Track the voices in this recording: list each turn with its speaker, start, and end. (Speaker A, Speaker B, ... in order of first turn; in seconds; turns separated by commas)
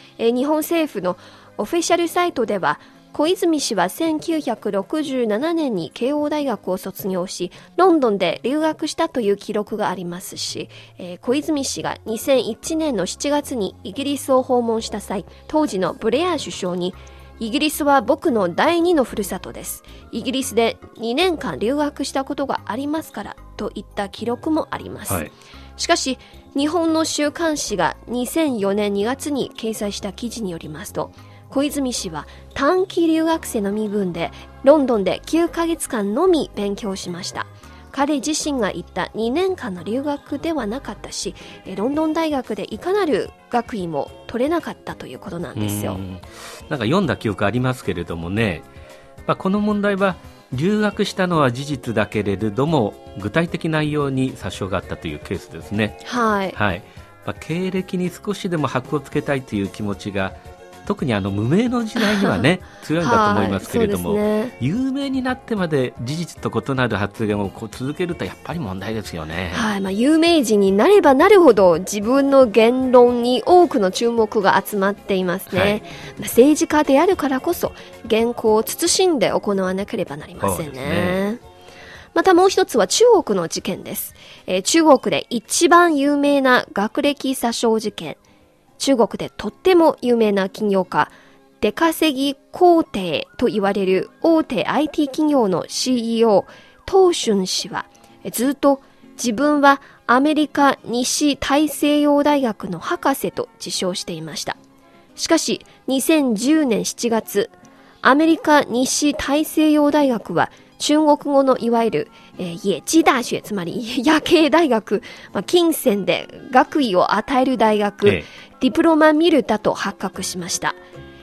Speaker A: 0.2-46.0, Speaker B: 45.6-48.7, Speaker B: 49.3-56.0, Speaker A: 56.0-56.6, Speaker B: 56.5-69.7, Speaker A: 62.0-62.5, Speaker A: 63.0-64.5, Speaker A: 69.5-81.4, Speaker B: 75.5-75.8, Speaker B: 80.4-81.2, Speaker A: 82.1-88.2, Speaker A: 88.8-104.6, Speaker A: 105.2-107.5, Speaker A: 108.0-120.8